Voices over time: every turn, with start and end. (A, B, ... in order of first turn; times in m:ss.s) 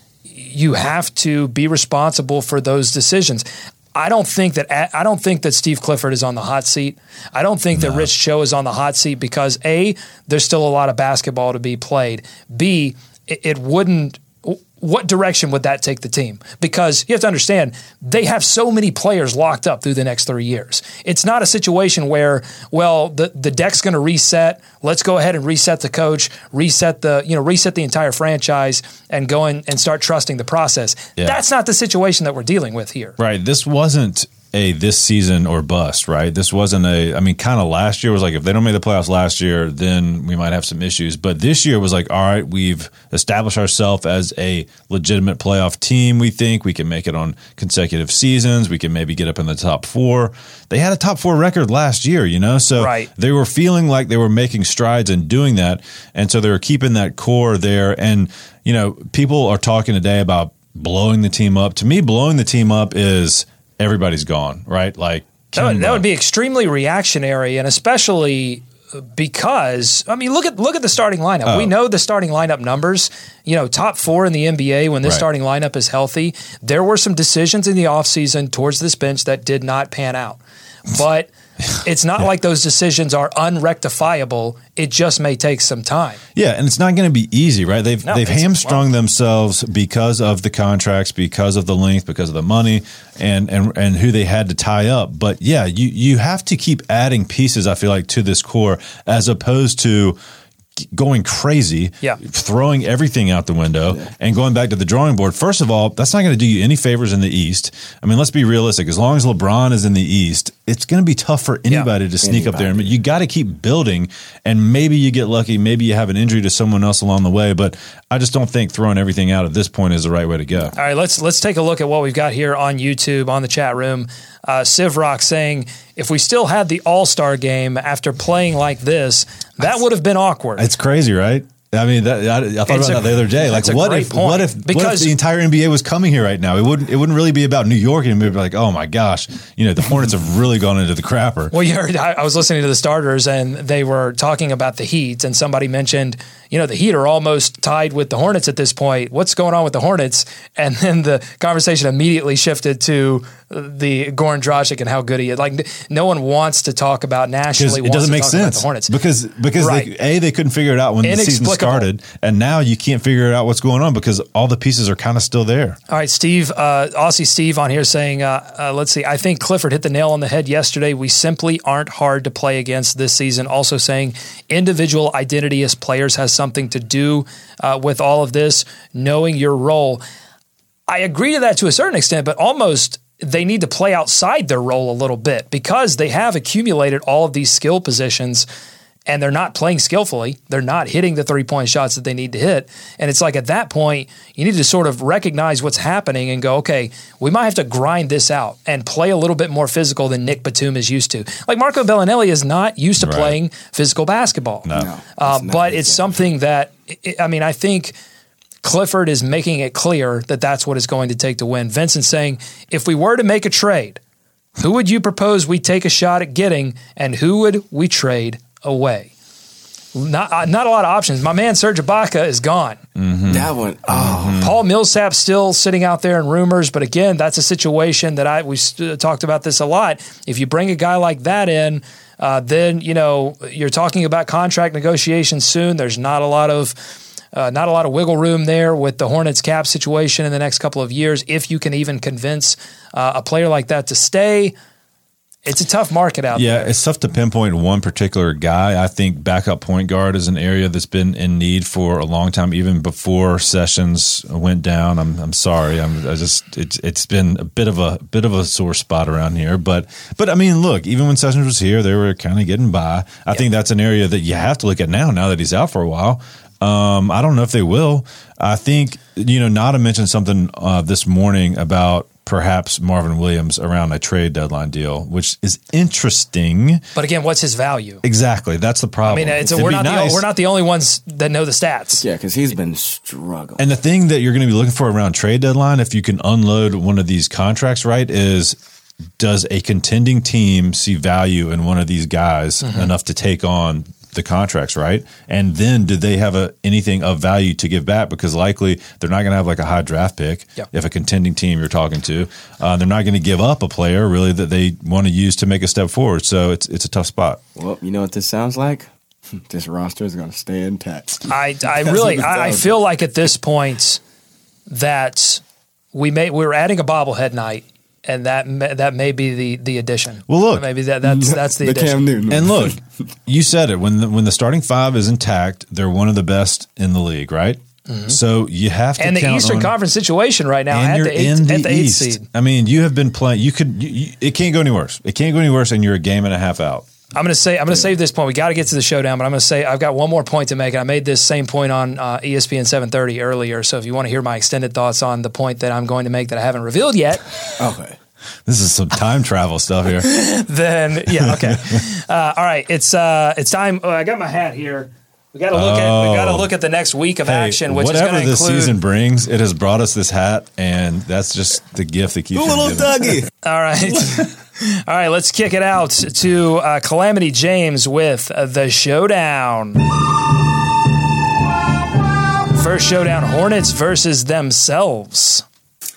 0:00.3-0:33.2 A
0:07.7-0:08.1 B
0:33.2-1:06.0 B
0:52.8-0:53.1 A
1:05.5-1:26.2 A
1:11.4-1:11.7 B
1:26.4-1:40.2 B
1:28.0-1:28.8 A
1:40.8-2:00.7 B
1:52.2-1:53.0 C
2:00.8-2:10.6 A
2:10.6-2:21.5 B
2:12.7-2:15.1 A
2:21.5-2:38.9 A
2:37.5-2:45.8 B
2:39.6-2:39.9 A
2:41.0-2:41.9 A
2:45.9-3:00.0 A
3:00.9-3:08.4 A
3:09.1-3:27.9 A
3:23.0-3:23.4 B
3:24.6-3:24.9 B
3:24.7-3:26.1 C
3:28.6-3:34.0 A
3:34.6-3:39.1 A
3:39.9-3:42.8 A
3:43.0-3:44.5 B
3:43.3-3:44.4 C
3:44.3-3:56.8 A
3:57.3-4:04.5 A
4:05.4-4:06.7 A
4:06.3-4:36.8 B
4:37.0-4:38.0 A
4:38.0-4:40.2 B
4:39.1-4:42.0 A
4:42.0-4:43.6 C
4:43.6-4:48.6 B
4:49.2-5:07.4 B
4:52.6-4:52.9 A
5:07.6-5:11.2 C
5:11.3-5:14.0 A
5:11.8-5:12.6 C
5:14.7-5:15.4 A
5:15.9-5:22.0 A
5:20.3-5:20.7 B
5:21.0-5:22.8 C
5:22.3-5:29.7 B
5:27.9-5:28.2 A
5:29.0-5:32.2 A
5:30.7-5:36.8 B
5:37.1-5:47.2 A
5:47.6-5:48.0 C
5:48.4-5:50.1 B
5:50.0-5:58.8 A
5:51.2-5:51.8 B
5:55.5-5:56.5 B
5:57.2-6:03.2 B
6:02.3-6:03.3 C
6:03.4-6:09.8 A
6:12.5-6:15.4 A